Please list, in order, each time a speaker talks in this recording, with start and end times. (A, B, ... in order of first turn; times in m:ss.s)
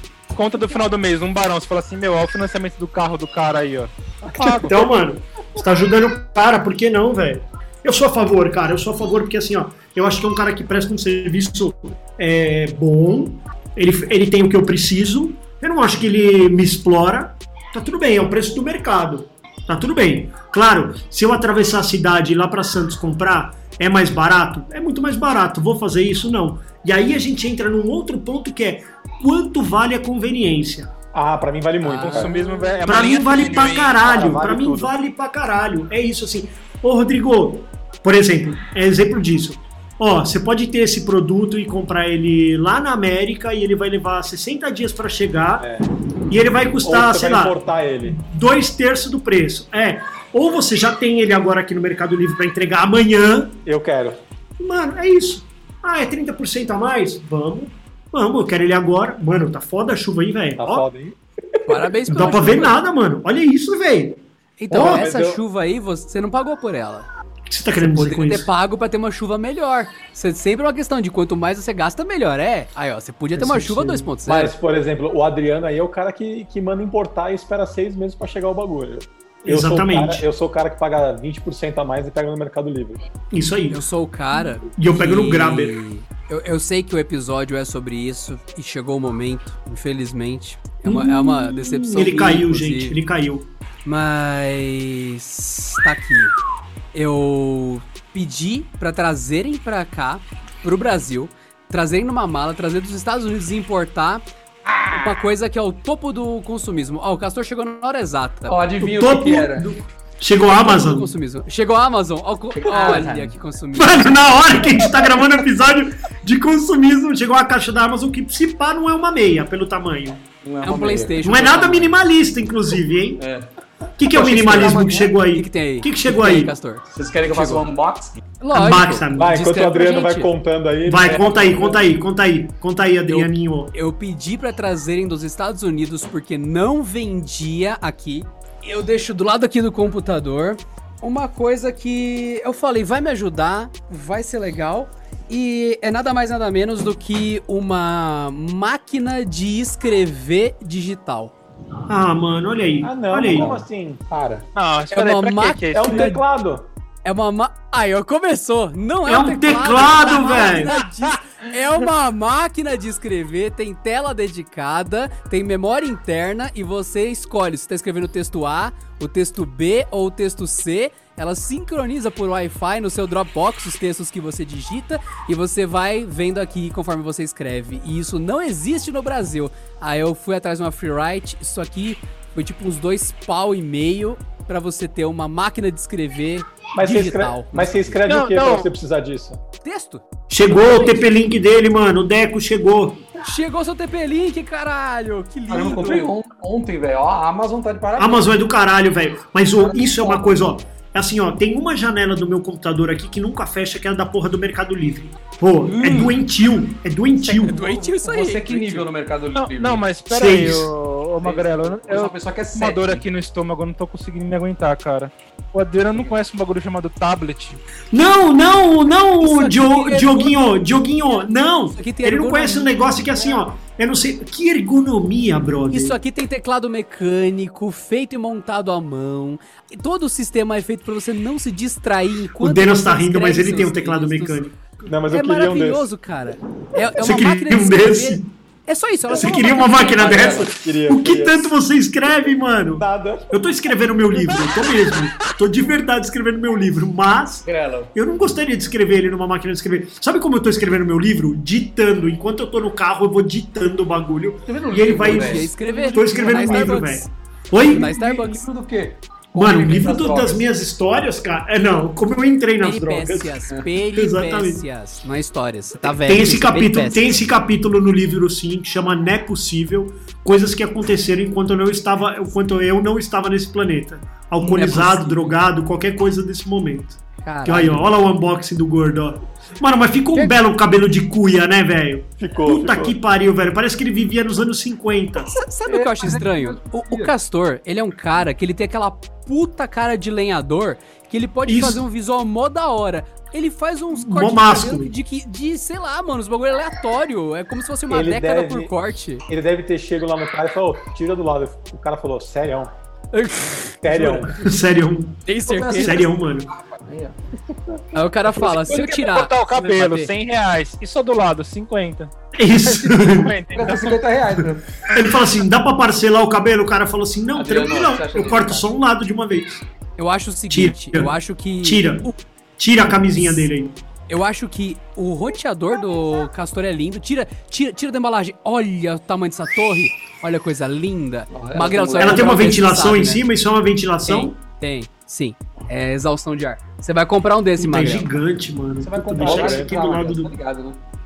0:00.3-0:04.8 A
0:04.4-0:04.9 B
0:04.7-0:30.9 C
0:31.1-0:32.4 B
0:31.8-0:32.9 D
0:32.0-0:34.0 A
0:32.8-0:45.7 C
0:33.8-0:34.9 B
0:45.6-0:45.9 B
0:46.3-0:53.6 C
0:46.8-0:48.2 B
0:53.6-0:54.2 B
0:54.6-1:00.9 C
1:00.6-1:01.2 B
1:01.6-1:02.8 D
1:02.1-1:04.2 C
1:04.6-1:07.1 D
1:04.7-1:05.4 B
1:07.5-1:08.5 C
1:07.8-1:14.5 D
1:13.4-1:23.0 B
1:19.4-1:20.2 C
1:23.3-1:23.8 C
1:23.7-1:33.0 D
1:24.7-1:25.8 C
1:30.8-1:33.4 C
1:33.8-1:36.3 D
1:36.9-1:44.2 D
1:44.7-1:45.1 E
1:44.9-1:48.6 D
1:48.5-1:49.7 E
1:48.8-1:51.1 C
1:50.5-1:54.7 D
1:52.5-1:53.3 E
1:53.8-2:00.2 C
2:00.4-2:01.2 E
2:00.6-2:02.0 D
2:01.2-2:03.2 C
2:03.2-2:03.5 E
2:04.0-2:06.5 C
2:04.2-2:04.8 E
2:04.2-2:07.6 D
2:06.9-2:08.2 E
2:08.4-2:10.3 D
2:08.5-2:09.3 C
2:09.1-2:11.6 B
2:10.8-2:13.7 C
2:11.3-2:11.8 E
2:13.1-2:31.3 D
2:31.9-2:33.5 C
2:32.8-2:34.0 B
2:33.2-2:34.4 E
2:34.5-2:36.1 A
2:34.9-2:36.2 D
2:35.7-2:36.7 B
2:37.0-3:08.0 D
2:39.0-2:40.7 C
3:06.7-3:09.4 B
3:08.1-3:08.7 A
3:09.6-3:11.1 D
3:10.3-3:13.1 C
3:13.2-3:16.1 D
3:15.5-3:18.4 E
3:18.0-3:27.6 C
3:19.5-3:20.5 E
3:25.6-3:26.2 E
3:27.1-3:29.9 E
3:27.4-3:28.9 D
3:29.3-3:37.6 A
3:30.1-3:30.7 C
3:31.2-3:33.0 E
3:37.9-3:46.0 C
3:39.2-3:43.4 D
3:45.7-3:54.4 D
3:52.4-3:54.6 C
3:54.8-3:55.9 B
3:55.1-4:00.1 D
3:57.0-3:58.3 C
3:59.1-4:17.9 C
3:59.8-4:00.5 E
4:00.1-4:01.5 B
4:02.7-4:03.4 B
4:07.4-4:07.9 E
4:14.4-4:16.8 E
4:14.9-4:17.1 D
4:17.6-4:20.5 E
4:17.6-4:18.5 D
4:19.4-4:23.4 C
4:22.6-4:27.1 D
4:23.9-4:24.6 C
4:26.0-4:45.4 C
4:34.4-4:35.4 D
4:37.2-4:37.8 D
4:42.2-4:43.0 B
4:45.3-4:59.2 D
4:45.7-4:47.1 E
4:51.5-4:51.8 C
4:53.9-4:54.9 C
4:57.9-4:58.7 B
4:59.3-5:02.7 B
5:03.1-5:04.2 D
5:03.8-5:04.4 B
5:04.3-5:05.2 C
5:05.2-5:06.0 D
5:05.5-5:07.2 E
5:05.8-5:06.5 C
5:07.9-5:10.1 D
5:08.4-5:14.0 A
5:12.4-5:13.3 C
5:13.5-5:14.8 E
5:14.4-5:19.6 C
5:17.3-5:18.7 E
5:20.0-5:22.2 D
5:20.5-5:23.8 C
5:23.2-5:23.5 D
5:24.1-5:33.2 D
5:31.3-5:32.6 E
5:32.0-5:34.3 C
5:34.1-5:38.1 D
5:37.6-5:40.3 C
5:38.8-5:40.8 E
5:39.2-5:39.6 B